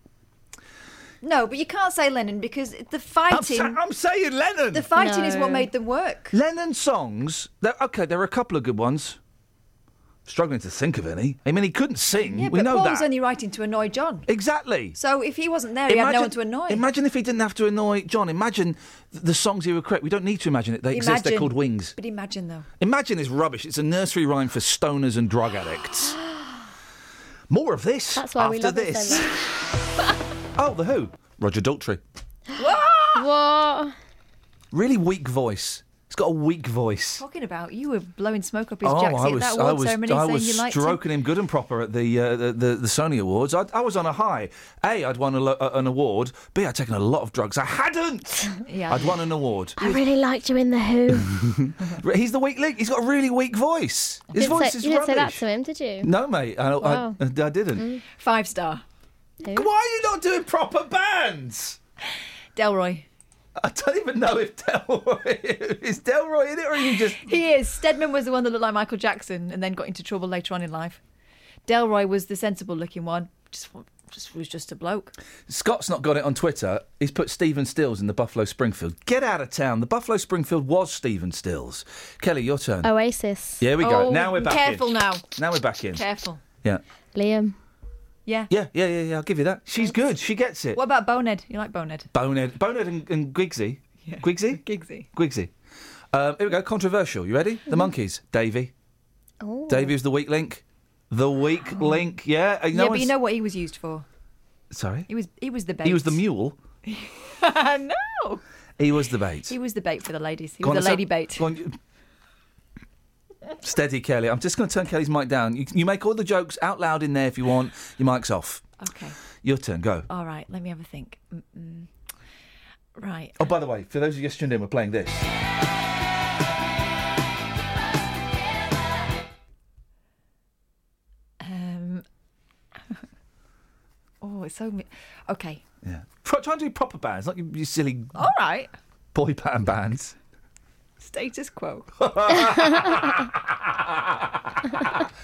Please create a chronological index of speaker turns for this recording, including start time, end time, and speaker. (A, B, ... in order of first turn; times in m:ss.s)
0:01.2-0:03.8 A
0:03.3-0:04.9 B
0:04.7-0:06.3 A
0:04.9-0:05.7 C
0:06.3-0:09.2 B
0:10.2-0:13.1 B
0:12.3-0:14.3 A
0:14.3-0:15.0 B
0:14.9-0:16.8 A
0:15.9-0:22.0 B
0:20.9-0:22.7 A
0:22.8-0:26.2 B
0:27.5-0:29.3 B
0:28.1-0:29.3 C
0:30.5-0:32.0 B
0:32.6-0:33.3 A
0:33.1-0:33.9 C
0:34.7-0:37.2 B
0:37.2-0:41.0 A
0:38.8-0:49.8 B
0:48.6-0:49.2 A
0:49.8-0:51.4 C
0:51.2-0:55.4 B
0:54.3-0:56.1 C
0:56.0-0:57.9 B
0:56.8-0:57.2 C
0:57.7-0:58.0 C
0:58.1-0:58.8 A
0:59.4-0:59.7 C
0:59.5-1:01.8 B
1:02.5-1:03.0 A
1:03.6-1:07.3 B
1:07.1-1:11.0 A
1:11.7-1:15.1 A
1:15.5-1:22.9 B
1:22.8-1:23.7 C
1:23.6-1:26.0 B
1:23.8-1:25.3 A
1:25.9-1:26.4 A
1:27.1-1:27.6 C
1:28.2-1:28.5 A
1:28.5-1:30.8 B
1:30.7-1:32.1 A
1:32.1-1:35.5 B
1:34.0-1:35.1 A
1:36.1-1:38.7 B
1:39.4-1:39.9 C
1:39.7-1:43.2 B
1:42.7-1:44.0 A
1:44.7-1:45.1 B
1:45.1-1:46.2 A
1:45.8-1:46.6 B
1:46.8-1:48.4 A
1:48.8-1:49.5 B
1:49.5-1:51.5 A
1:50.6-1:51.8 B
1:53.6-1:58.6 B
1:58.8-1:59.2 A
1:59.4-2:00.1 B
2:00.1-2:01.9 A
2:02.9-2:03.4 A
2:03.4-2:05.3 B
2:11.4-2:12.0 A
2:14.2-2:15.6 A
2:15.8-2:18.2 B
2:18.1-2:18.7 A
2:19.1-2:20.2 B
2:21.0-2:21.9 A
2:22.0-2:25.0 B